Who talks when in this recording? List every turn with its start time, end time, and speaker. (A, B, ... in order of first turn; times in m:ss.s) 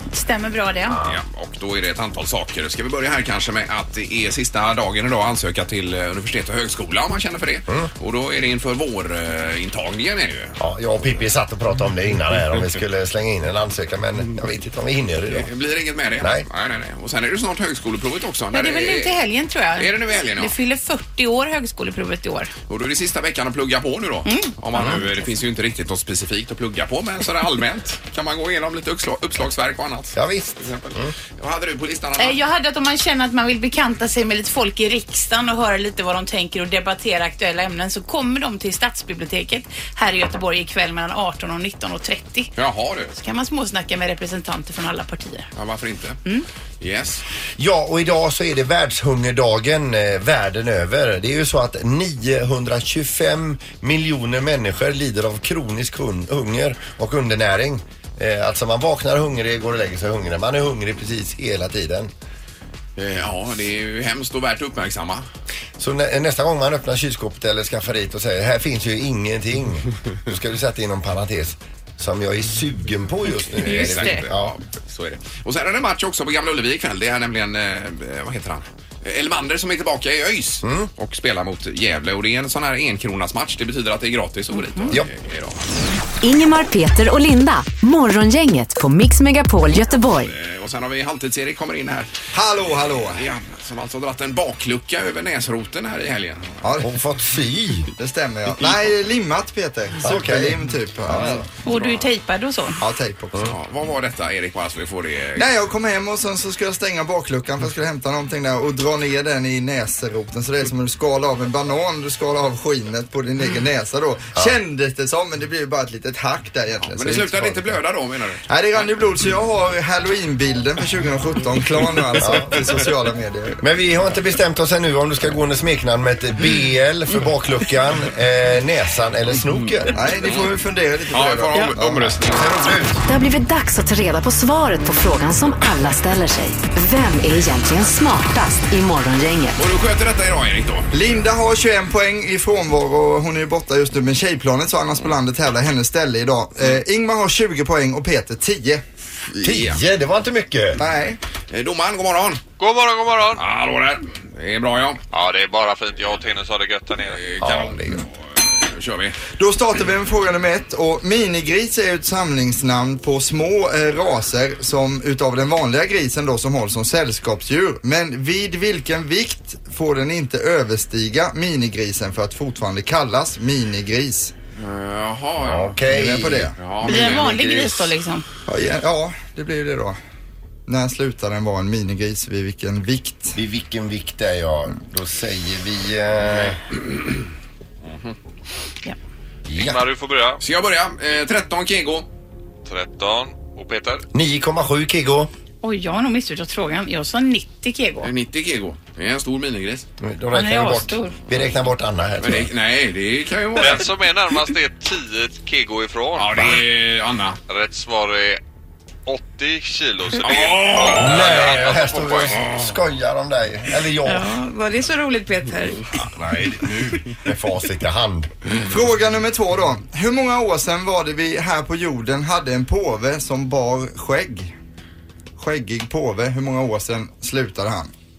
0:00.1-0:01.0 A
0:00.9-0:01.2 B
0:01.0-0:10.6 C
0:10.6-0:15.5 B
0:15.3-0:19.2 C
0:16.2-0:16.5 B
0:18.5-0:22.5 A
0:19.8-0:20.6 C
0:22.7-0:32.4 C
0:24.2-0:24.6 A
0:24.8-0:25.0 B
0:30.2-0:31.1 B
0:32.2-0:42.5 A
0:42.6-0:43.1 C
0:43.2-0:45.5 A
0:45.6-0:46.2 C
0:46.8-0:47.2 C
0:47.6-1:02.1 B
1:03.0-1:05.2 C
1:05.8-1:14.5 B
1:13.6-1:25.6 C
1:13.6-1:14.2 A
1:20.6-1:20.9 B
1:24.5-1:25.0 A
1:26.2-1:30.3 D
1:30.2-1:32.1 C
1:32.3-1:33.3 E
1:33.1-1:36.6 C
1:36.6-1:36.9 E
1:36.8-1:37.9 B
1:38.0-1:41.4 E
1:40.0-1:41.4 B
1:41.6-1:42.8 A
1:41.7-1:42.1 C
1:42.8-1:43.5 E
1:43.4-1:45.5 C
1:45.4-1:57.8 E
1:56.8-1:58.8 C
1:58.5-2:03.6 E
2:02.2-2:02.8 B
2:03.6-2:09.9 B
2:10.0-2:12.1 E
2:10.2-2:10.5 C
2:11.1-2:12.5 C
2:12.2-2:13.0 B
2:13.0-2:19.6 D
2:19.6-2:20.9 C
2:20.9-2:28.8 E
2:29.3-2:29.8 C
2:29.4-2:30.8 B
2:30.8-2:31.2 E
2:31.5-2:32.4 C
2:32.6-2:33.4 F
2:33.4-2:35.0 C
2:35.1-2:37.2 F
2:37.1-2:39.2 C
2:37.4-2:38.1 B
2:39.4-2:54.3 E
2:54.6-2:57.7 C
2:55.4-2:57.9 B
2:55.9-2:56.6 E
2:56.8-2:58.3 A
2:58.5-3:00.0 E
3:00.7-3:03.4 E
3:03.4-3:06.6 B
3:09.5-3:09.8 B
3:09.5-3:10.4 F
3:10.4-3:12.1 C
3:12.6-3:14.0 F
3:14.1-3:15.3 B
3:15.6-3:18.1 A
3:18.0-3:19.9 C
3:20.0-3:22.5 B
3:20.3-3:21.2 A
3:22.2-3:23.9 C
3:23.6-3:26.6 F
3:26.2-3:27.4 C
3:27.5-3:28.4 F
3:29.1-3:32.3 F
3:30.2-3:32.5 C
3:30.8-3:34.3 B
3:34.0-3:35.9 A
3:36.0-3:38.3 B
3:38.6-3:44.5 E
3:45.4-3:47.9 E